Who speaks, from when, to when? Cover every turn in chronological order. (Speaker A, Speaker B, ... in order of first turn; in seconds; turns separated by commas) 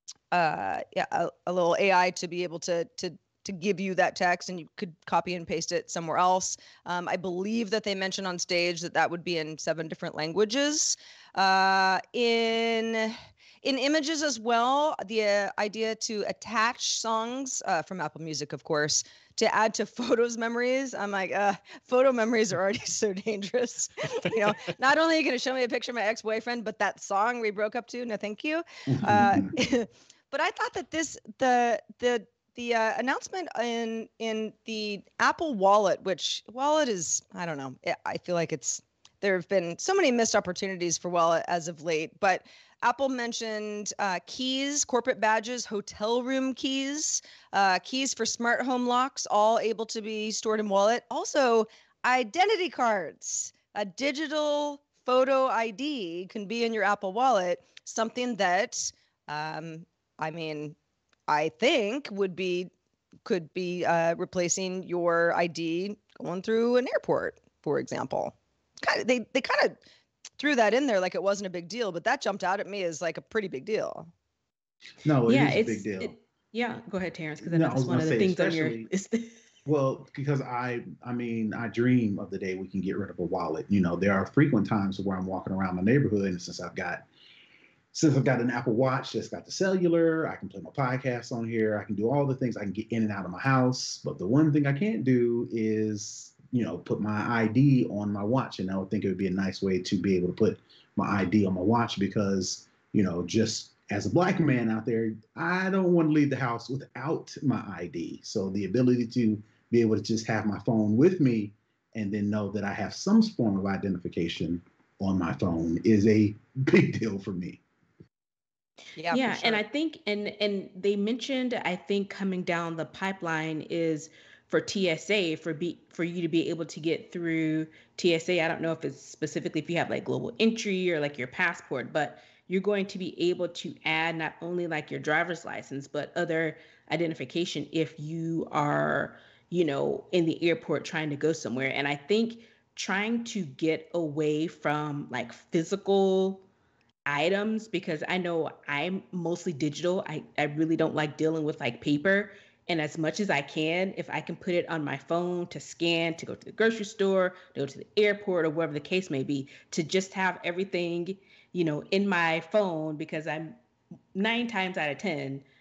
Speaker A: 0.3-60.8, Speaker B: 28.9-29.5, Speaker A: 61.3-62.7, Speaker A: 63.2-69.8, Speaker A: 70.4-74.1, Speaker B: 75.0-76.1, Speaker C: 75.2-79.3, Speaker B: 77.4-78.9, Speaker B: 79.7-87.0, Speaker B: 87.9-117.6, Speaker A: 119.0-119.6, Speaker C: 119.1-146.4, Speaker C: 147.1-163.6, Speaker C: 164.1-165.4